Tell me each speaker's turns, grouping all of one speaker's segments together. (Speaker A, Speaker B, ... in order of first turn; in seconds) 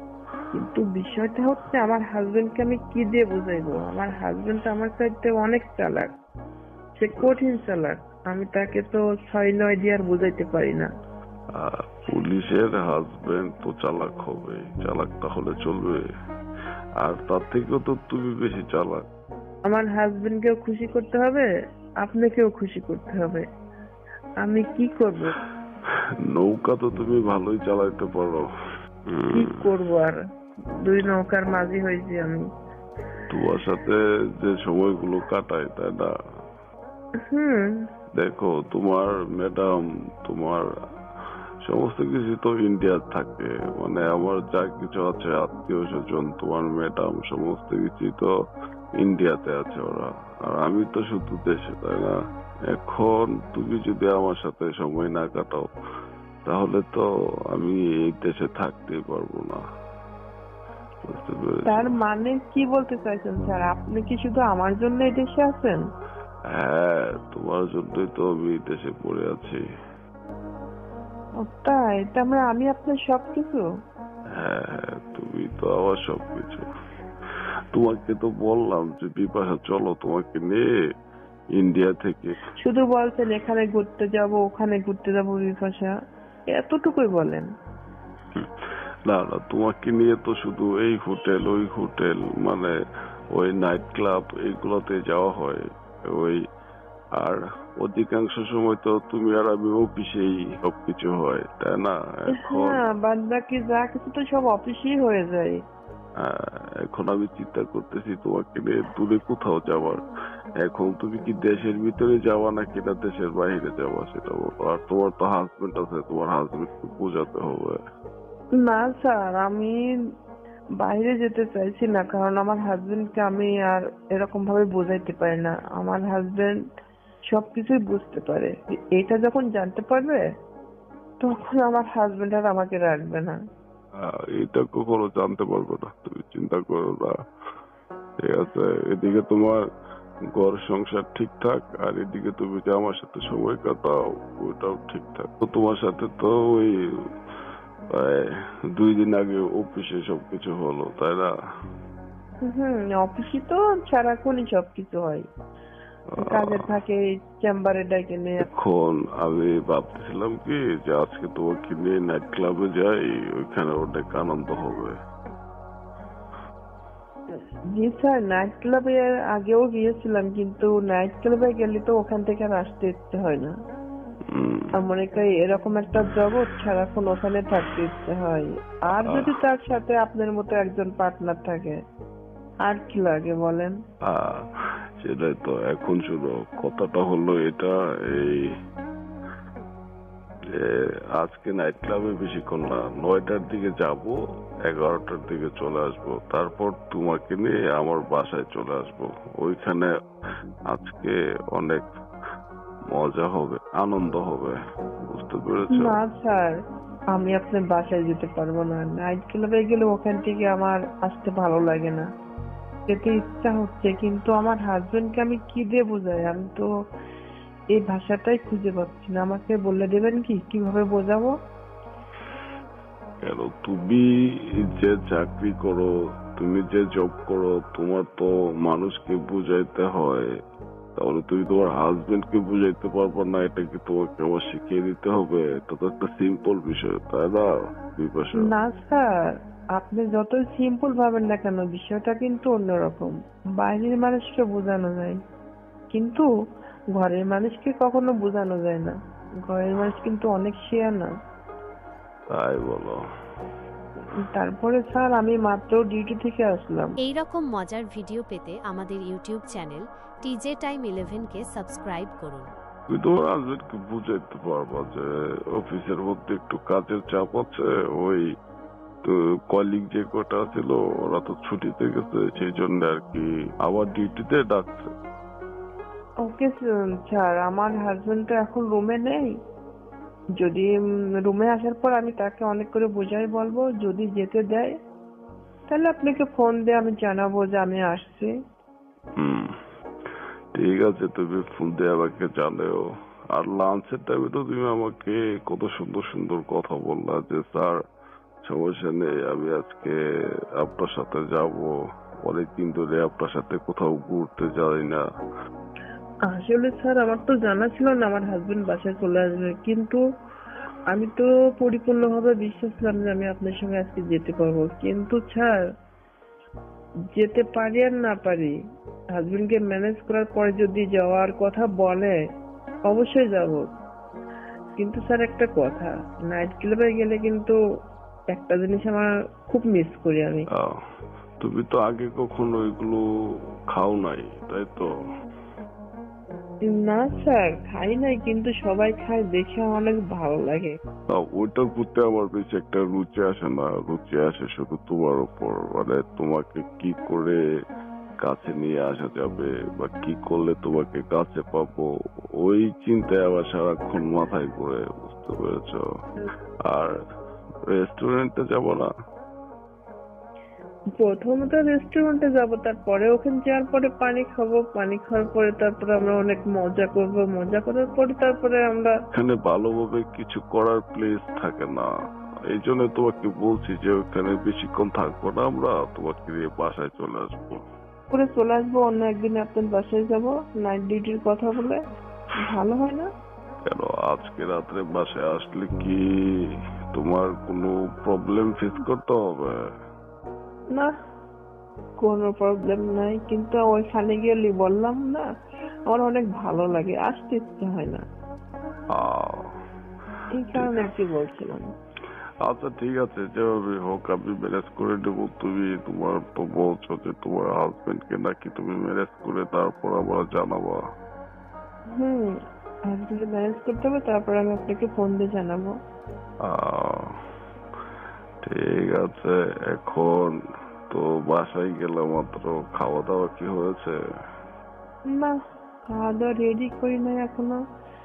Speaker A: 0.5-6.1, 7.0-10.9, 19.7-21.5, 22.0-23.4, 24.4-25.4, 29.3-30.2, 30.8-32.4, 37.3-37.8, 61.7-65.8, 71.4-73.6, 82.6-85.9, 86.5-87.5, 102.3-105.6, 118.6-119.8, 120.8-126.6, 127.3-130.2, 131.2-133.4, 152.4-155.2, 156.2-158.4, 167.7-173.5, 174.8-181.8, 182.7-183.8, 205.7-206.5, 207.1-212.1, 212.9-216.7, 217.7-221.3, 238.4-239.1, 239.7-245.2, 245.9-246.2, 246.9-251.1, 254.3-256.9, 276.2-279.4, 280.4-284.7, 285.7-288.3, 306.3-310.0, 310.9-315.5, 317.1-318.5, 319.1-322.1, 322.9-323.7, 324.8-327.6, 328.3-330.5, 336.7-340.7, 361.0-368.9, 378.1-381.8, 382.4-383.1, 392.0-395.3, 395.9-398.0, 400.3-401.7, 411.9-412.3, 412.9-415.7, 425.1-425.3, 425.9-427.6
Speaker B: 11.6-16.1, 17.0-19.0, 26.3-28.4, 29.1-29.6, 33.3-36.1, 38.1-40.7, 41.6-48.3, 49.0-52.2, 52.7-55.7, 56.4-59.6, 61.0-61.9, 66.5-69.6, 74.4-76.7, 77.7-80.7, 81.5-82.3, 89.1-92.7, 93.3-96.4, 97.2-102.8, 106.2-110.0, 110.6-117.8, 134.0-137.2, 138.2-139.6, 140.3-146.8, 147.9-151.3, 156.1-156.7, 158.4-165.0, 174.3-174.7, 178.9-179.3, 184.1-184.4, 185.0-188.5, 190.6-199.9, 200.7-201.9, 202.9-206.0, 223.2-230.3, 231.0-238.5, 252.3-253.0, 262.9-268.3, 269.0-274.9, 289.2-289.5, 290.5-297.8, 298.4-300.0, 300.6-305.0, 331.4-333.0, 333.7-334.9, 341.1-347.4, 348.2-355.8, 356.7-357.0, 357.7-358.9, 369.1-371.9, 372.5-377.6, 383.7-386.0, 386.9-389.6, 398.9-399.5, 402.4-410.8, 416.4-417.1, 418.4-420.4, 420.9-423.9
Speaker C: 257.0-262.5